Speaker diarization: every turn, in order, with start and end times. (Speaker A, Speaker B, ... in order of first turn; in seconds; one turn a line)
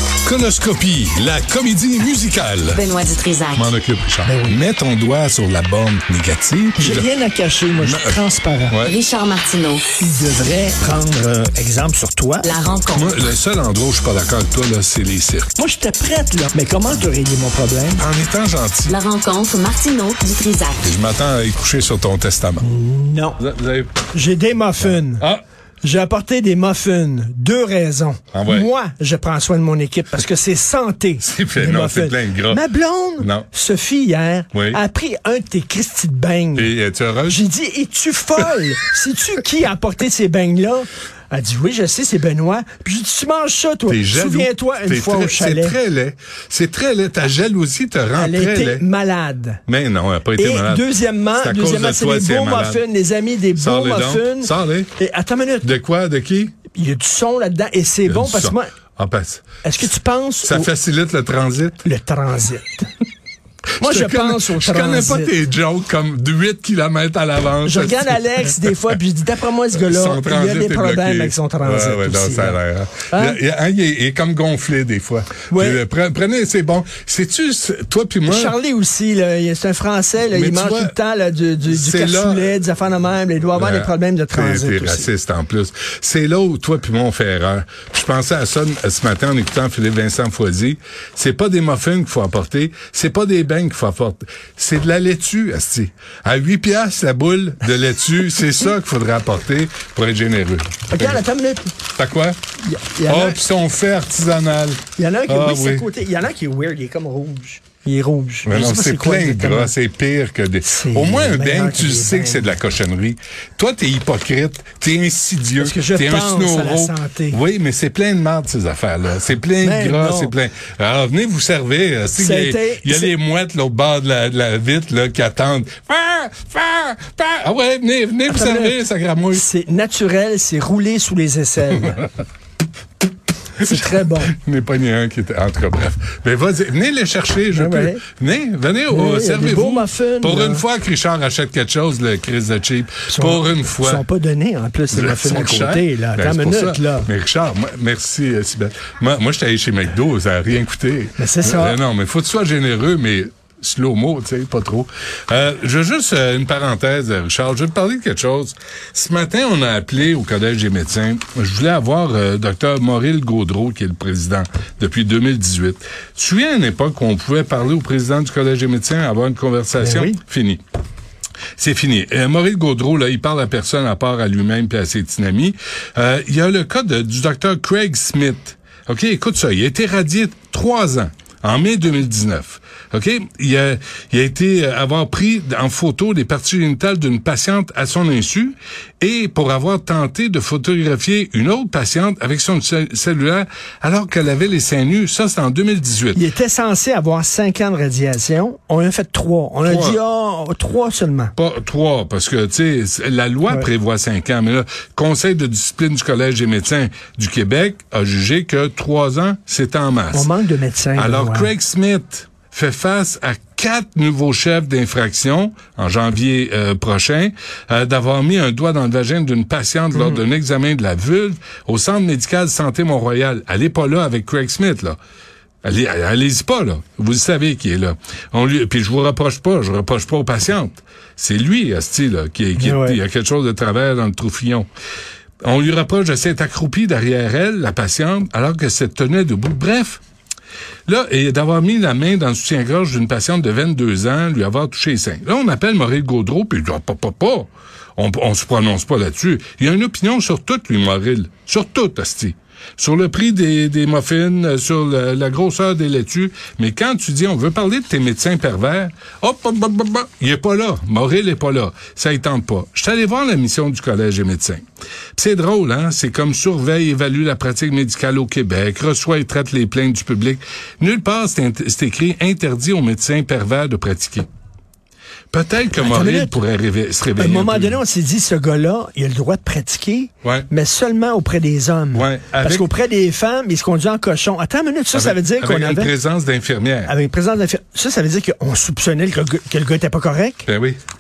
Speaker A: 0.2-2.8
Speaker B: 2.7-3.6
Speaker A: 3.5-7.1
Speaker C: 4.2-4.6
Speaker C: 6.8-8.8
Speaker A: 7.8-8.2
Speaker A: 8.7-9.0
Speaker B: 8.8-9.8
Speaker C: 10.0-12.5
Speaker B: 12.4-13.2
Speaker A: 12.9-15.5
Speaker C: 15.6-18.0
Speaker A: 18.0-19.0
Speaker B: 18.9-20.9
Speaker A: 20.8-22.6
Speaker C: 22.6-23.4
Speaker A: 23.4-24.0
Speaker C: 24.1-25.2
Speaker A: 24.8-25.4
Speaker C: 25.8-36.7
Speaker A: 28.3-28.7
Speaker A: 31.2-32.6
Speaker A: 33.2-33.5
Speaker A: 34.5-34.8
Speaker A: 36.6-37.4
Speaker C: 37.3-45.8
Speaker A: 43.9-48.9
Speaker C: 48.1-49.6
Speaker A: 49.7-52.8
Speaker C: 50.4-55.7
Speaker A: 53.6-54.9
Speaker A: 55.6-56.6
Speaker C: 56.7-58.7
Speaker A: 58.1-59.5
Speaker C: 59.6-60.7
Speaker A: 60.4-61.9
Speaker C: 61.9-62.9
Speaker C: 63.8-65.3
Speaker A: 63.8-69.0
Speaker C: 67.7-72.6
Speaker A: 69.7-78.6
Speaker C: 73.1-73.4
Speaker C: 75.5-75.8
Speaker C: 78.3-85.1
Speaker A: 80.3-80.9
Speaker A: 81.7-82.6
Speaker A: 83.5-101.2
Speaker C: 100.9-101.7
Speaker A: 101.9-102.4
Speaker C: 102.6-103.5
Speaker A: 103.1-105.9
Speaker C: 105.0-109.7
Speaker A: 108.5-129.4
Speaker C: 110.6-112.5
Speaker C: 115.6-117.4
Speaker C: 119.6-120.3
Speaker C: 122.2-123.1
Speaker C: 128.3-128.8
Speaker C: 129.3-132.0
Speaker A: 131.8-132.1
Speaker C: 133.6-134.3
Speaker A: 133.6-144.0
Speaker C: 137.5-138.0
Speaker C: 138.9-140.7
Speaker C: 143.1-147.1
Speaker A: 144.9-170.6
Speaker C: 151.2-151.8
Speaker C: 169.8-170.2
Speaker A: 171.6-196.2
Speaker C: 196.1-201.3
Speaker A: 199.6-200.0
Speaker A: 201.4-210.3
Speaker C: 210.1-211.5
Speaker A: 211.0-225.0
Speaker C: 219.9-220.2
Speaker A: 225.6-234.7
Speaker C: 232.6-233.0
Speaker A: 235.4-240.0
Speaker A: 240.9-264.6
Speaker A: 265.1-274.3
Speaker A: 275.3-277.8
Speaker C: 275.8-276.4
Speaker C: 277.2-285.9
Speaker A: 281.9-282.7
Speaker A: 284.9-286.9
Speaker C: 286.9-290.4
Speaker A: 290.5-290.8